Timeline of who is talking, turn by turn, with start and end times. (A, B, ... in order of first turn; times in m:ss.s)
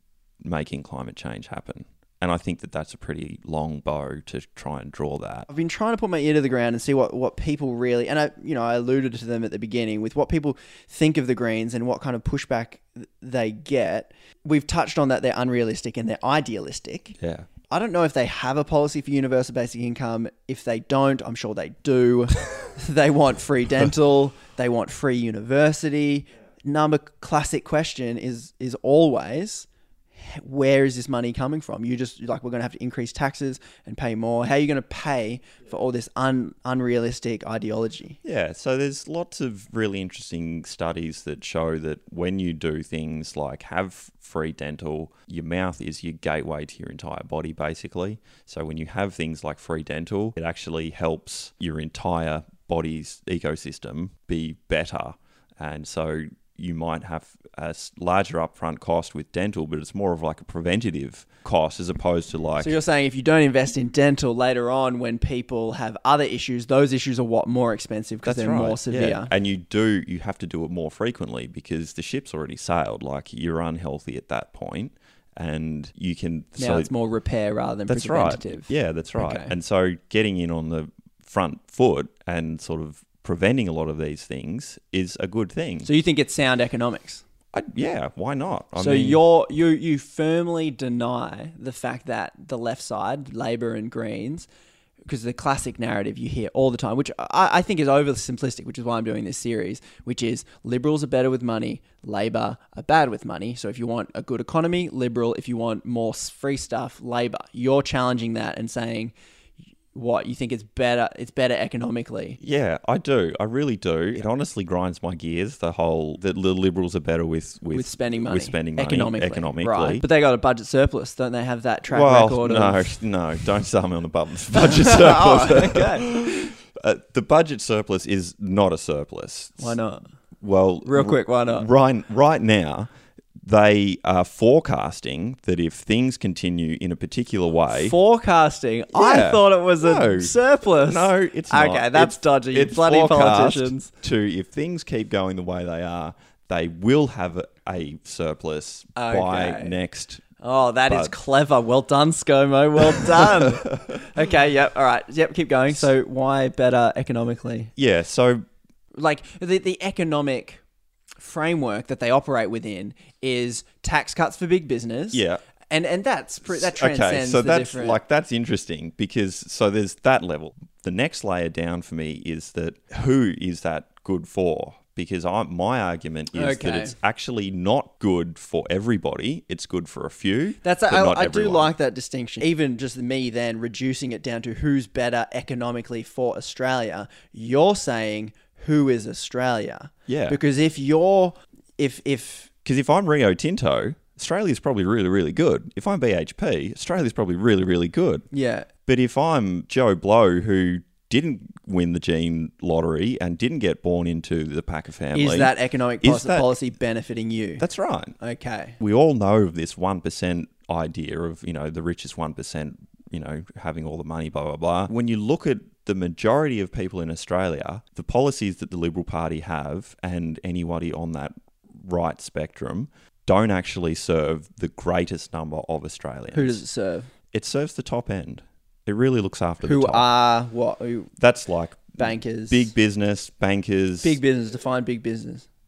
0:00.4-0:05.5 A
0:05.5-0:17.2 B
0:17.2-0:17.5 A
0:17.7-0:38.2 B
0:38.2-1:02.8 A
1:02.6-1:09.3 B
1:08.2-1:16.9 A
1:16.6-1:19.5 B
1:17.9-1:25.9 A
1:25.8-1:27.2 B
1:27.5-1:29.2 A
1:28.8-1:34.5 B
1:35.1-1:49.1 B
1:49.9-1:52.4 B
1:52.4-2:00.0 A
1:57.7-2:03.0 B
2:01.9-2:09.8 A
2:04.5-2:06.5 B
2:09.6-2:10.1 B
2:10.4-2:18.0 A
2:10.8-2:11.7 B
2:17.7-2:23.9 B
2:18.9-2:30.2 A
2:29.0-2:29.7 B
2:30.4-2:37.7 B
2:30.9-2:31.1 A
2:32.9-2:34.0 A
2:37.8-2:38.5 A
2:38.9-2:40.6 B
2:41.2-2:48.0 B
2:45.1-2:45.4 A
2:46.5-3:01.7 A
2:56.3-2:57.0 B
3:00.6-3:12.5 B
3:10.1-3:10.4 A
3:12.6-3:18.3 A
3:18.3-3:18.7 B
3:18.9-3:26.6 A
3:25.1-3:27.6 B
3:27.6-3:28.2 A
3:28.2-3:28.8 B
3:28.8-3:46.6 A
3:46.3-3:47.1 B
3:47.3-3:50.1 A
3:49.6-3:51.1 B
3:51.2-3:54.2 A
3:52.0-3:52.7 B
3:54.0-3:55.5 B